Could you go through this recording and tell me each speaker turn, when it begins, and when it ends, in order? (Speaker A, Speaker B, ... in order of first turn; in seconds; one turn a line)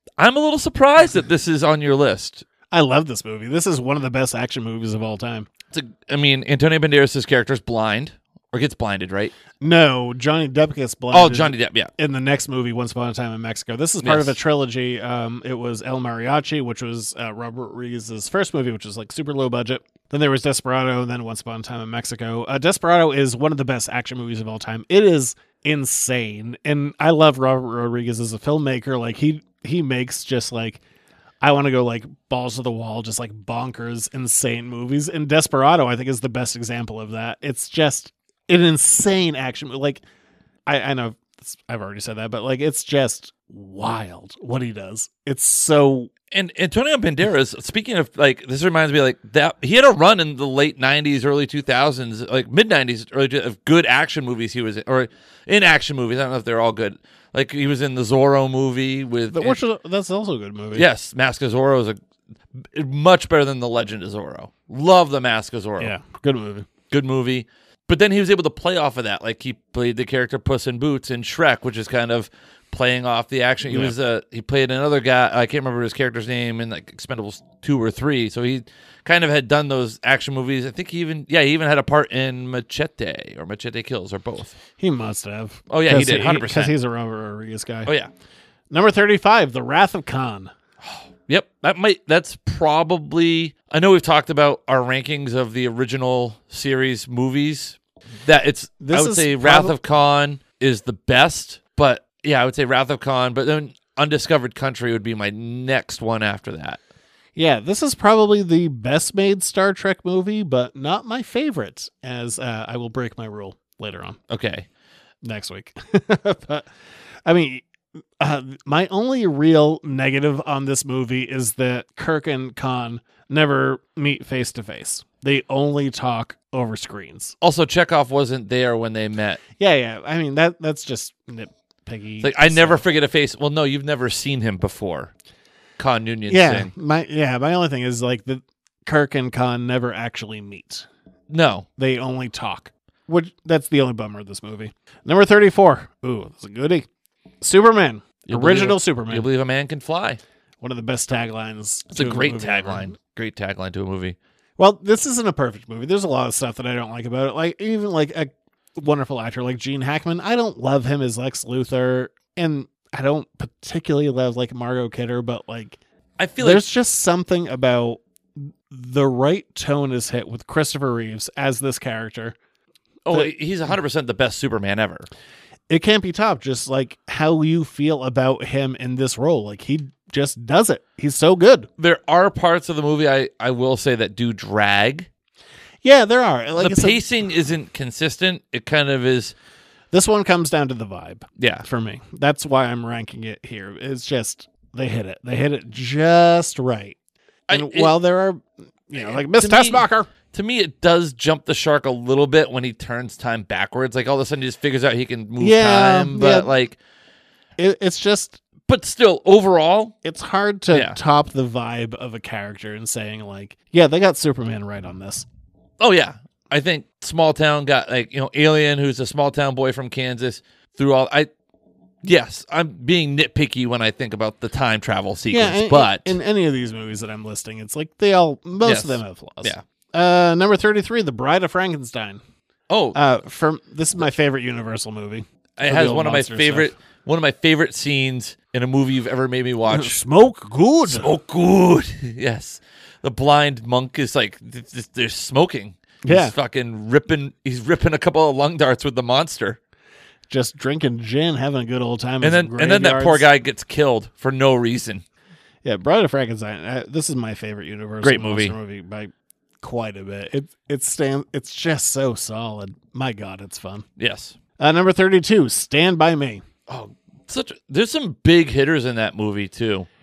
Speaker A: 0.2-2.4
Speaker B: 2.7-5.5
Speaker A: 5.7-9.3
Speaker B: 9.6-30.8
Speaker A: 11.1-11.9
Speaker A: 14.0-14.4
Speaker B: 31.4-40.0
Speaker B: 40.6-46.1
Speaker A: 46.3-59.6
Speaker B: 59.3-60.9
Speaker A: 60.7-62.0
Speaker A: 62.5-65.9
Speaker B: 65.8-66.7
Speaker A: 66.9-84.5
Speaker B: 73.7-73.9
Speaker B: 84.8-87.9
Speaker A: 85.7-86.7
Speaker A: 87.8-88.1
Speaker B: 88.7-90.5
Speaker A: 90.8-106.8
Speaker B: 98.8-99.7
Speaker B: 107.3-114.2
Speaker A: 114.3-114.7
Speaker B: 115.2-116.7
Speaker B: 117.2-117.6
Speaker B: 118.2-127.3
Speaker A: 127.4-129.4
Speaker B: 129.6-132.8
Speaker A: 132.2-135.1
Speaker A: 135.8-136.7
Speaker B: 136.3-140.9
Speaker A: 141.3-141.7
Speaker B: 141.8-146.8
Speaker B: 147.4-149.3
Speaker A: 148.3-150.2
Speaker B: 150.6-152.9
Speaker A: 151.9-154.2
Speaker B: 154.6-165.8
Speaker A: 166.2-166.6
Speaker B: 166.4-172.3
Speaker A: 173.0-175.1
Speaker B: 175.7-181.7
Speaker A: 181.8-185.1
Speaker B: 185.8-187.0
Speaker A: 186.6-189.3
Speaker B: 189.9-196.9
Speaker A: 191.4-191.7
Speaker A: 197.5-197.9
Speaker B: 197.5-200.1
Speaker A: 199.0-206.8
Speaker B: 205.4-206.5
Speaker B: 207.6-208.4
Speaker A: 208.7-209.9
Speaker B: 210.0-215.2
Speaker A: 210.7-211.0
Speaker A: 215.8-221.3
Speaker A: 222.0-226.2
Speaker B: 225.3-232.2
Speaker A: 228.6-229.6
Speaker A: 232.7-233.0
Speaker B: 232.9-236.7
Speaker A: 235.6-240.0
Speaker B: 239.7-241.1
Speaker A: 240.8-249.6
Speaker B: 246.0-246.3
Speaker B: 250.3-253.2
Speaker A: 252.2-255.0
Speaker B: 255.6-259.1
Speaker A: 258.0-258.6
Speaker B: 259.6-263.9
Speaker A: 264.0-264.4
Speaker B: 264.6-266.4
Speaker A: 266.7-269.9